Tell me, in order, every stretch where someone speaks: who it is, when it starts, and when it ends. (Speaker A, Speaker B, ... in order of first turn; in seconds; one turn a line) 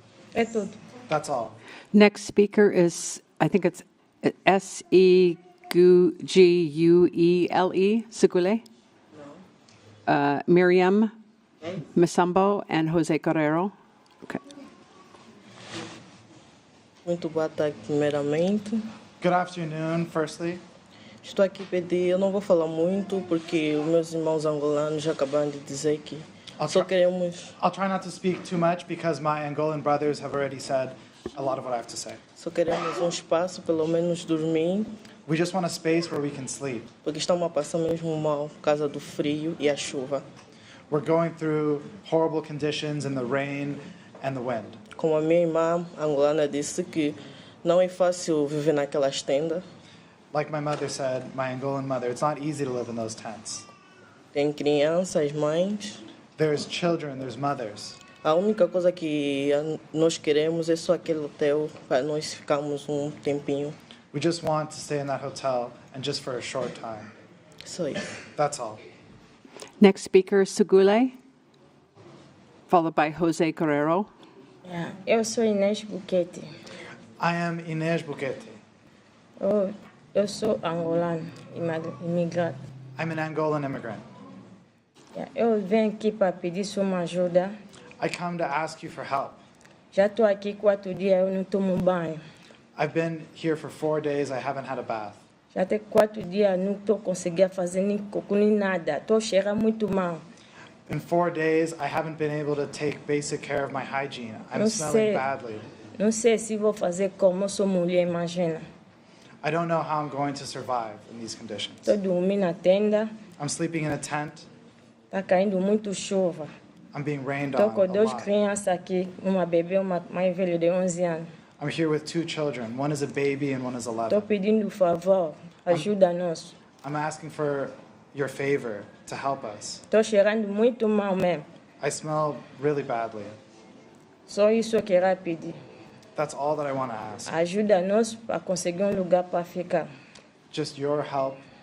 Speaker A: 0.3-0.8
Speaker B: 1.1-1.6
Speaker C: 1.9-8.6
Speaker D: 9.1-9.4
Speaker C: 10.1-11.1
Speaker C: 12.0-13.7
Speaker D: 17.0-18.9
Speaker B: 19.2-20.6
Speaker D: 21.2-27.5
Speaker B: 26.6-26.9
Speaker B: 27.6-32.2
Speaker D: 32.4-34.9
Speaker B: 35.2-36.9
Speaker D: 37.0-40.2
Speaker B: 40.9-44.8
Speaker D: 45.0-49.6
Speaker B: 50.3-53.7
Speaker D: 54.3-56.0
Speaker B: 56.4-58.0
Speaker D: 58.2-63.7
Speaker B: 64.1-67.1
Speaker D: 67.6-68.0
Speaker B: 68.3-68.8
Speaker C: 69.8-71.1
Speaker C: 72.7-74.1
Speaker A: 74.7-76.5
Speaker B: 77.2-78.6
Speaker A: 79.4-82.5
Speaker B: 83.0-84.0
Speaker A: 85.1-87.5
Speaker B: 88.0-89.4
Speaker A: 89.9-92.2
Speaker B: 92.8-95.2
Speaker A: 95.5-100.2
Speaker B: 100.9-105.7
Speaker A: 104.5-105.2
Speaker A: 106.0-108.6
Speaker B: 109.4-111.9
Speaker A: 111.8-113.1
Speaker B: 113.4-114.5
Speaker A: 115.1-116.5
Speaker B: 116.9-118.3
Speaker A: 117.5-121.3
Speaker B: 121.6-124.3
Speaker A: 124.1-126.5
Speaker B: 126.8-129.8
Speaker A: 129.9-131.4
Speaker B: 131.8-133.4
Speaker A: 134.3-135.6
Speaker B: 136.2-137.3
Speaker A: 137.3-139.9
Speaker B: 140.5-141.4